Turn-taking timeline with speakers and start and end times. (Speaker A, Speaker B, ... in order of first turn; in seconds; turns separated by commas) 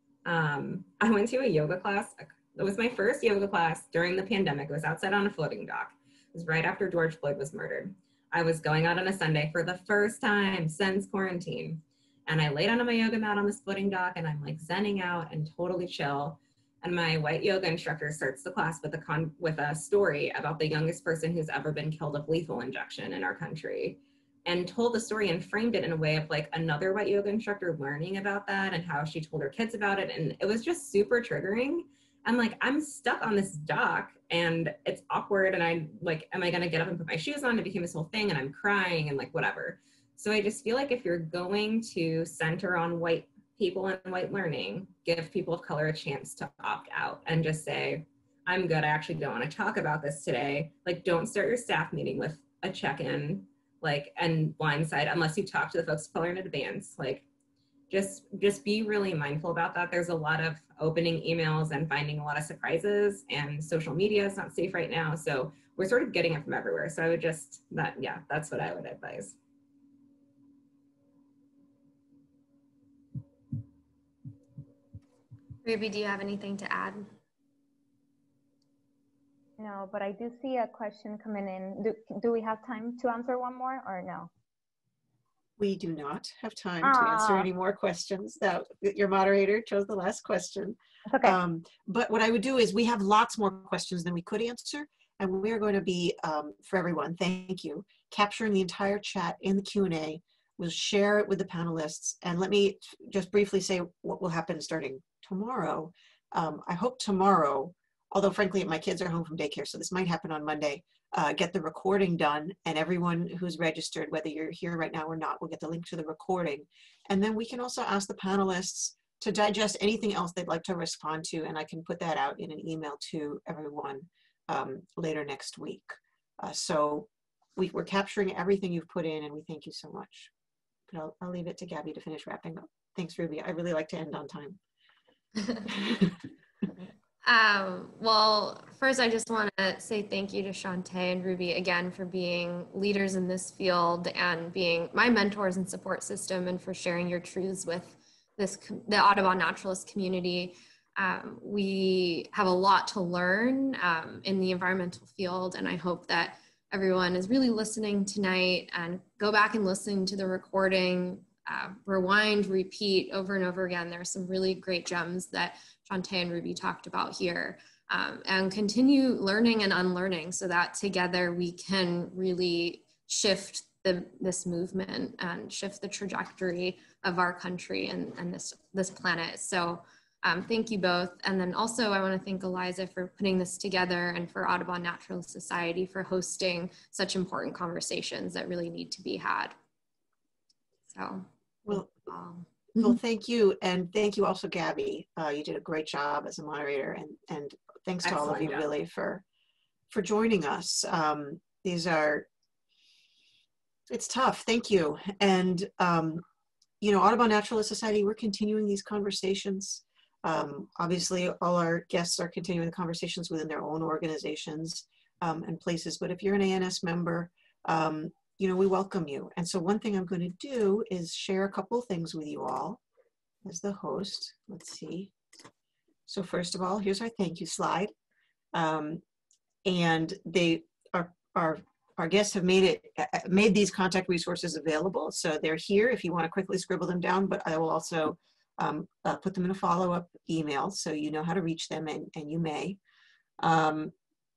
Speaker A: 0.2-57.2, Speaker A: 57.9-69.4, Speaker B: 75.6-77.1, Speaker C: 79.6-84.3, Speaker D: 85.6-130.3, Speaker C: 86.8-87.5, Speaker C: 91.1-91.4, Speaker D: 130.9-134.6, Speaker D: 135.7-136.1, Speaker B: 137.2-189.6, Speaker B: 190.9-192.5, Speaker D: 192.8-199.2, Speaker A: 198.0-198.7, Speaker D: 199.9-202.3, Speaker D: 203.9-206.2, Speaker D: 206.8-222.8, Speaker D: 223.4-225.1, Speaker D: 226.1-227.9, Speaker D: 228.5-229.0, Speaker D: 229.7-242.8, Speaker D: 243.4-243.9